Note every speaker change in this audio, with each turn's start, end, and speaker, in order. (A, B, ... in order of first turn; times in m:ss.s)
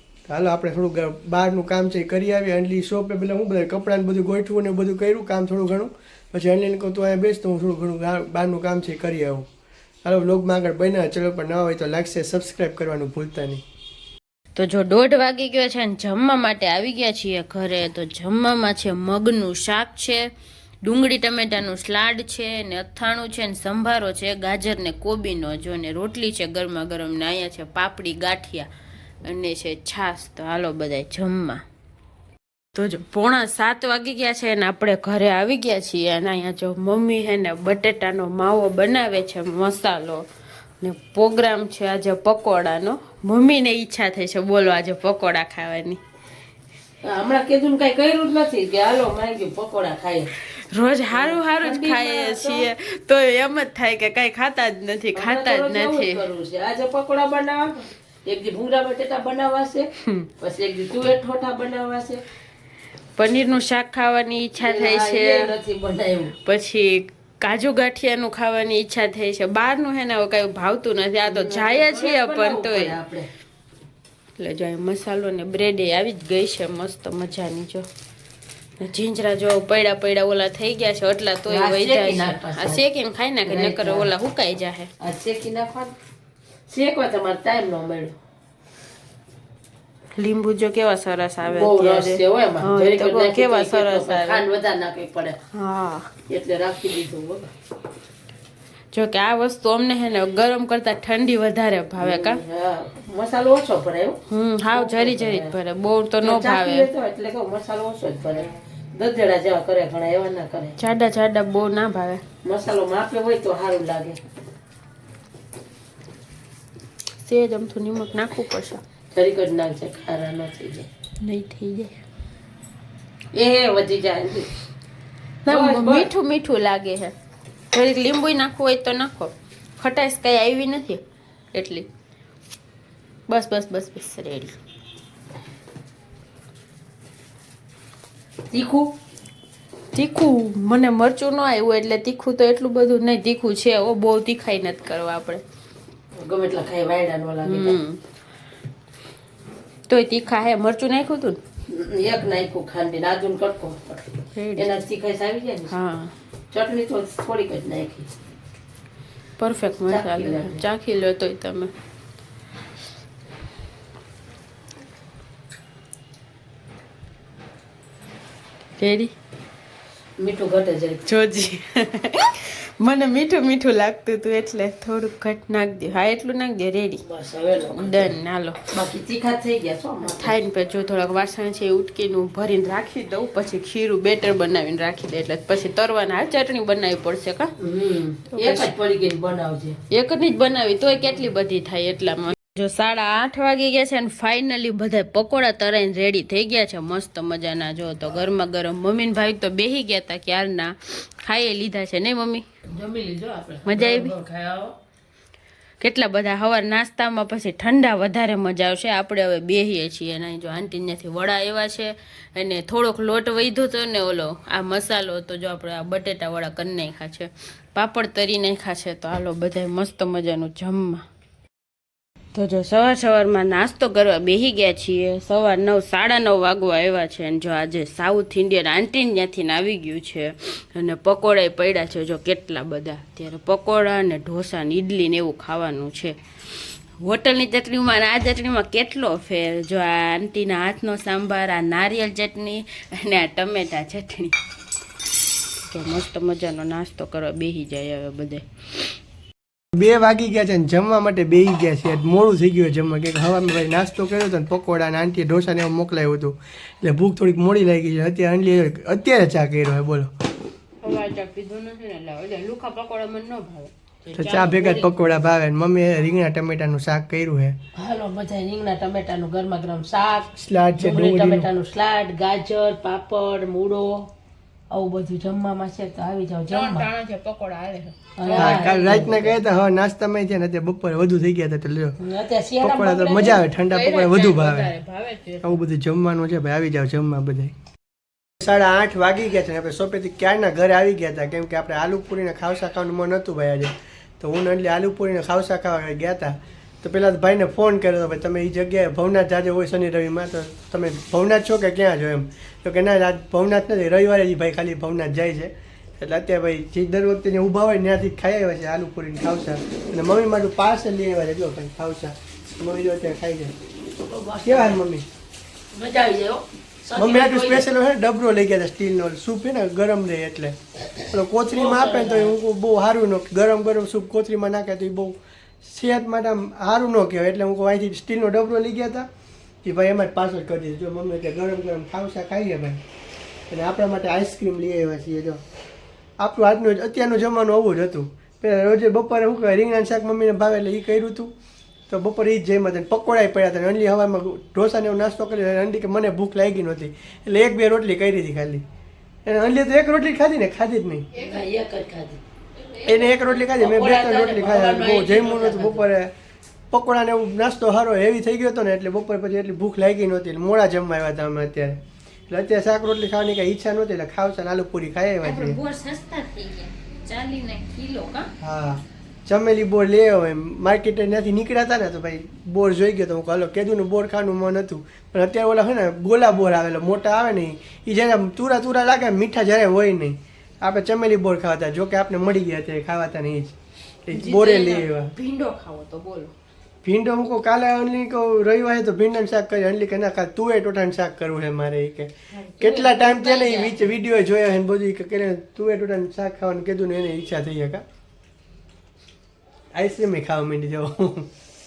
0:00.3-0:09.5 A
0:10.0-0:13.6 A
0:14.6-0:20.3 B
0:20.8-0:28.7 B
0:29.3-0:31.6 B
0:32.7-0:40.2 B
0:40.8-0:46.0 B
0:47.0-0:50.3 C
0:50.5-0:56.2 B
0:51.1-0:52.7 C
0:55.2-0:59.9 C
1:00.4-1:02.2 C
1:03.2-1:05.5 B
1:04.6-1:06.3 C
1:06.4-1:13.0 B
1:11.3-1:13.3 C
1:14.4-1:17.9 B
1:18.8-1:24.9 B
1:21.5-1:22.8 C
1:23.5-1:24.1 C
1:25.0-1:25.9 C
1:26.7-1:28.2 C
1:30.2-1:34.4 B
1:31.4-1:35.4 C
1:35.5-1:36.1 B
1:36.3-1:37.5 C
1:38.9-1:42.4 B
1:42.0-1:44.2 C
1:44.3-1:46.9 B
1:44.7-1:45.5 C
1:46.2-1:50.8 C
1:50.8-1:52.2 B
1:52.4-1:54.2 C
1:57.2-1:58.8 B
1:59.1-2:00.9 C
2:01.2-2:01.9 B
2:03.3-2:04.5 C
2:05.4-2:07.1 B
2:05.5-2:06.1 C
2:07.7-2:11.0 B
2:11.5-2:11.9 B
2:13.3-2:14.6 B
2:18.5-2:18.9 C
2:19.9-2:25.4 B
2:26.2-2:27.8 C
2:27.4-2:28.0 B
2:29.9-2:31.4 B
2:31.7-2:35.7 C
2:34.4-2:34.7 B
2:35.7-2:36.1 B
2:36.5-2:38.1 C
2:39.4-2:41.7 B
2:39.7-2:40.6 C
2:48.8-2:49.1 B
2:50.2-2:51.1 C
2:51.1-2:57.0 B
2:57.0-2:58.1 C
2:57.7-2:58.6 B
2:58.7-3:00.4 C
3:00.0-3:07.5 B
3:07.6-3:09.8 C
3:08.3-3:08.7 B
3:09.9-3:22.4 B
3:22.7-3:24.7 C
3:23.6-3:24.2 B
3:25.8-3:41.0 B
3:42.3-3:56.2 B
3:57.0-4:04.3 B
4:05.7-4:08.4 B
4:09.7-4:20.1 A
4:20.8-4:25.0 B
4:24.1-4:27.6 A
4:27.8-4:34.1 C
4:30.4-4:31.5 A
4:34.7-4:36.9 C
4:36.5-4:39.0 B
4:38.2-4:39.4 C
4:38.4-4:42.0 A
4:42.0-4:43.4 C
4:42.6-4:44.7 A
4:43.7-4:45.6 B
4:45.4-4:47.5 A
4:48.4-5:13.5 A
5:14.0-5:14.8 C
5:14.4-5:15.0 A
5:15.7-5:17.7 C
5:17.0-5:20.6 A
5:21.1-5:29.1 A
5:21.5-5:22.3 C
5:29.6-5:32.8 A
5:33.5-5:35.4 A
5:36.2-5:41.3 A
5:41.9-5:48.6 A
5:49.3-5:51.0 A
5:51.1-5:52.2 C
5:52.7-5:53.0 B
5:52.8-5:56.1 A
5:53.5-5:55.9 C
5:56.7-6:05.6 A
6:05.2-6:08.3 B
6:08.4-6:23.6 A
6:24.1-6:25.1 A
6:24.1-6:26.3 B
6:26.8-6:37.8 A
6:32.3-6:33.9 B
6:39.7-6:41.3 A